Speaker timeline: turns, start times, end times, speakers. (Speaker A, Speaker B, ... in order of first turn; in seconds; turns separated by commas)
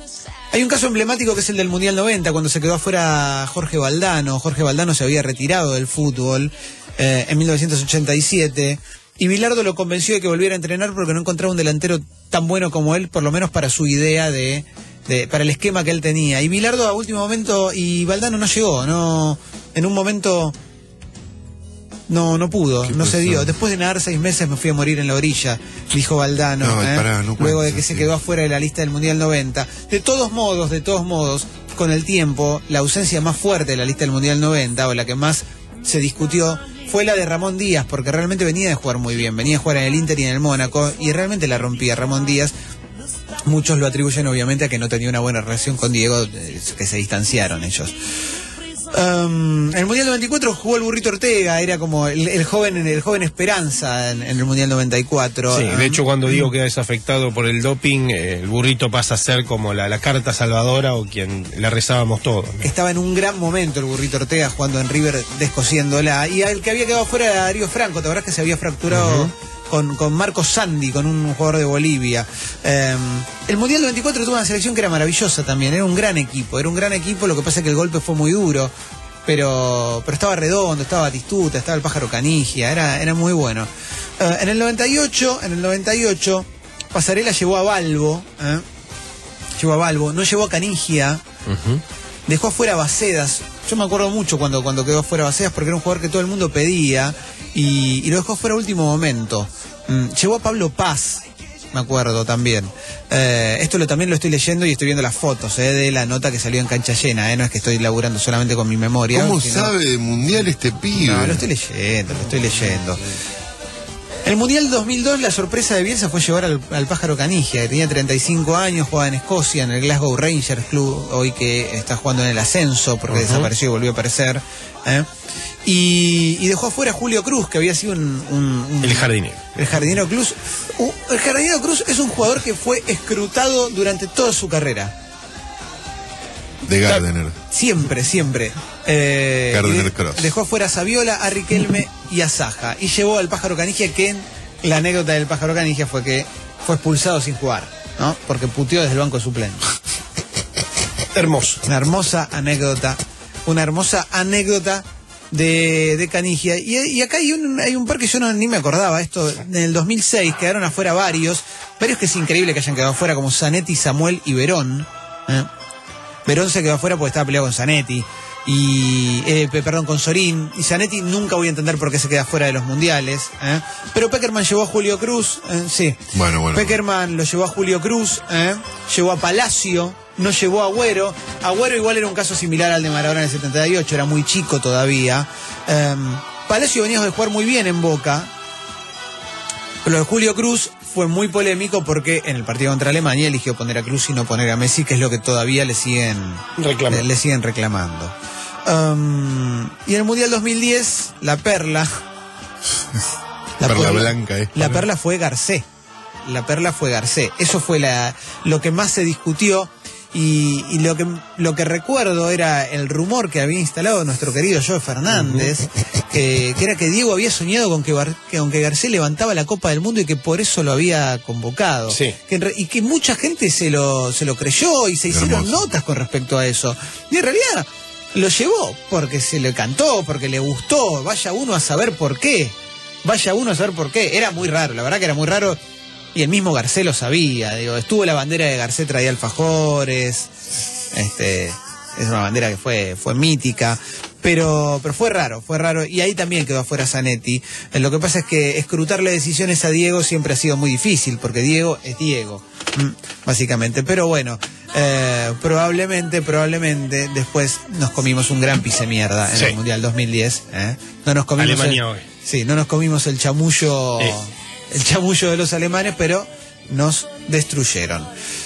Speaker A: 0.5-20.5, Speaker A: 22.1-42.5, Speaker B: 22.8-23.5, Speaker B: 26.6-28.1, Speaker A: 43.4-47.9, Speaker A: 48.9-56.5, Speaker C: 55.5-62.7, Speaker A: 62.6-78.7, Speaker C: 68.9-69.3, Speaker A: 79.2-88.6, Speaker A: 89.6-91.2, Speaker C: 91.5-91.8, Speaker A: 92.3-109.7, Speaker B: 109.1-111.4, Speaker A: 110.9-113.0, Speaker A: 114.2-125.1, Speaker C: 123.1-123.5, Speaker A: 125.6-134.9, Speaker C: 128.8-129.4, Speaker B: 136.6-137.3, Speaker A: 137.5-149.6, Speaker B: 139.5-140.3, Speaker C: 151.1-151.6, Speaker A: 151.6-165.5, Speaker A: 166.2-188.3, Speaker B: 176.1-176.7, Speaker A: 189.8-198.1, Speaker C: 196.6-197.1, Speaker A: 198.6-201.9, Speaker A: 203.6-205.6, Speaker B: 203.6-204.8, Speaker A: 206.2-235.6, Speaker C: 215.1-215.5, Speaker C: 221.9-222.2, Speaker B: 225.1-225.6, Speaker A: 236.1-240.3, Speaker A: 240.9-268.1, Speaker C: 259.3-259.6, Speaker C: 261.4-262.1